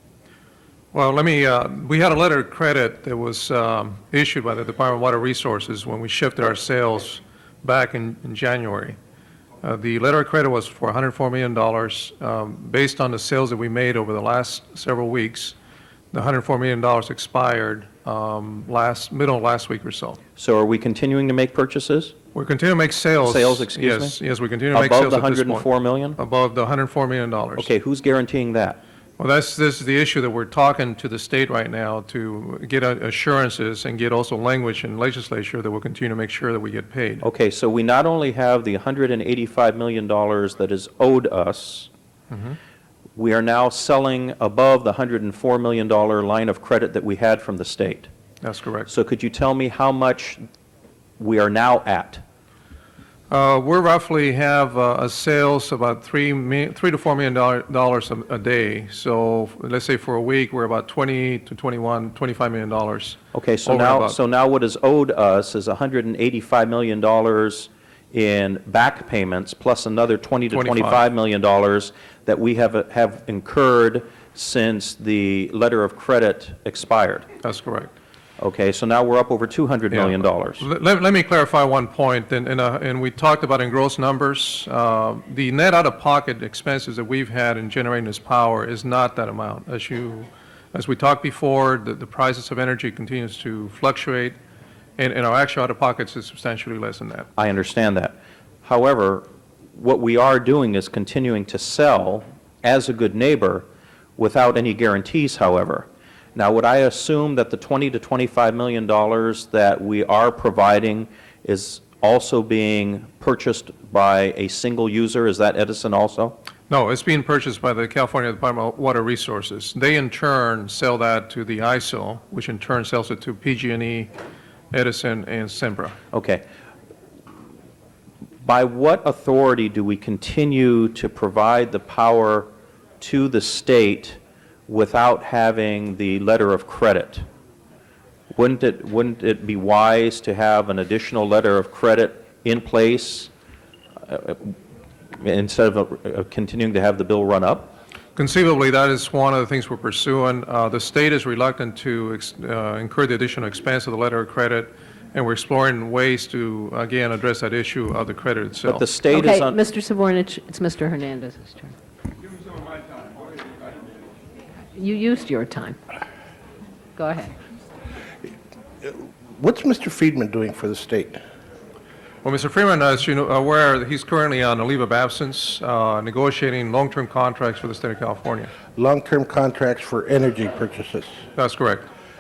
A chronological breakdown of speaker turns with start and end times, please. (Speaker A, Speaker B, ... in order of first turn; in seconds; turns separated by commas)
Speaker A: 0.9-9.0, Speaker A: 9.6-15.5, Speaker A: 16.1-20.2, Speaker B: 20.4-22.1, Speaker A: 22.3-27.7, Speaker B: 23.2-24.1, Speaker B: 24.7-26.2, Speaker B: 27.6-28.8, Speaker A: 29.2-37.2, Speaker B: 37.2-41.9, Speaker A: 42.3-42.6, Speaker B: 43.1-48.1, Speaker A: 48.4-48.9, Speaker B: 48.9-50.4, Speaker B: 51.2-52.2, Speaker A: 53.3-64.2, Speaker B: 63.3-77.2, Speaker A: 70.5-71.0, Speaker A: 77.4-77.9, Speaker B: 78.4-80.7, Speaker A: 79.9-94.3, Speaker A: 95.0-97.3, Speaker B: 97.4-103.7, Speaker B: 104.2-116.3, Speaker A: 116.7-124.1, Speaker A: 124.7-126.0, Speaker B: 126.1-126.4, Speaker B: 128.4-132.5, Speaker B: 133.0-137.2, Speaker B: 138.3-143.3, Speaker B: 144.1-144.5, Speaker B: 145.2-147.7, Speaker A: 148.2-158.9, Speaker B: 158.7-159.6, Speaker C: 159.1-161.7, Speaker C: 164.7-165.8, Speaker C: 166.9-167.3, Speaker D: 168.8-171.2, Speaker A: 172.2-178.5, Speaker D: 178.8-181.2, Speaker A: 181.4-181.8